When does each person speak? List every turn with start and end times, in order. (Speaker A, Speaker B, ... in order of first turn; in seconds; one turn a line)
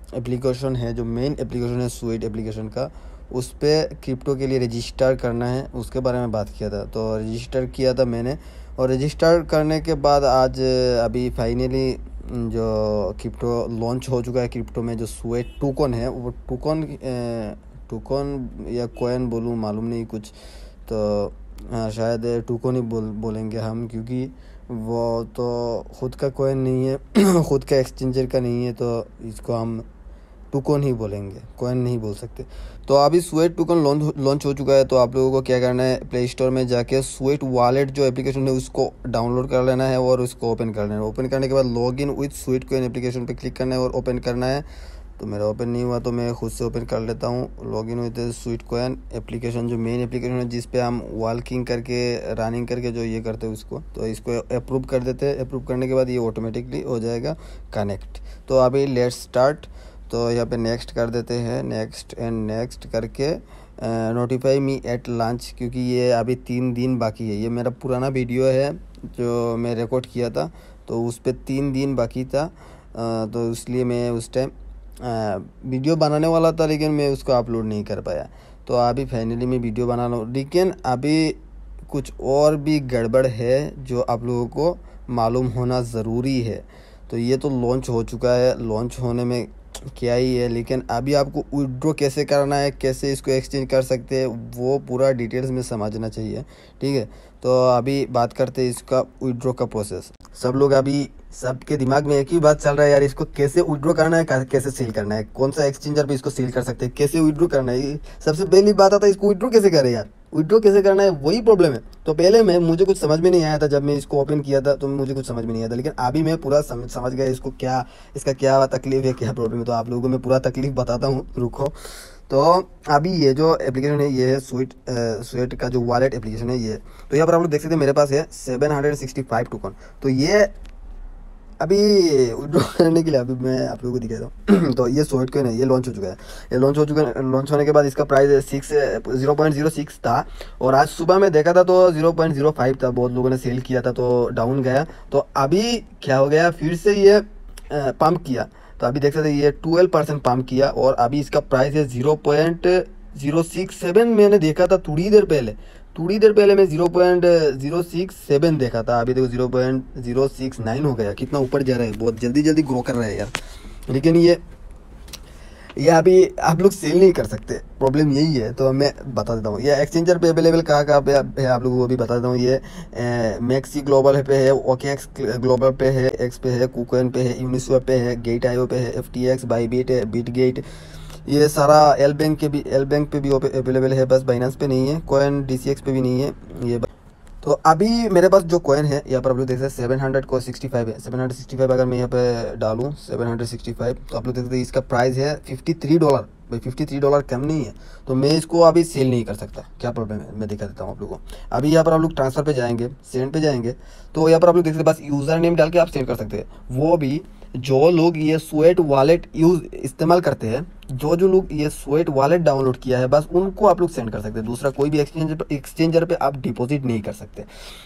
Speaker A: 0.1-20.3
Speaker A: 20.9-29.8
Speaker A: 30.5-44.6
Speaker A: 45.2-130.5
Speaker A: 131.6-163.3
Speaker A: 163.9-164.4
Speaker A: 165.8-180.6
Speaker A: 181.2-186.9
Speaker A: 187.4-217.5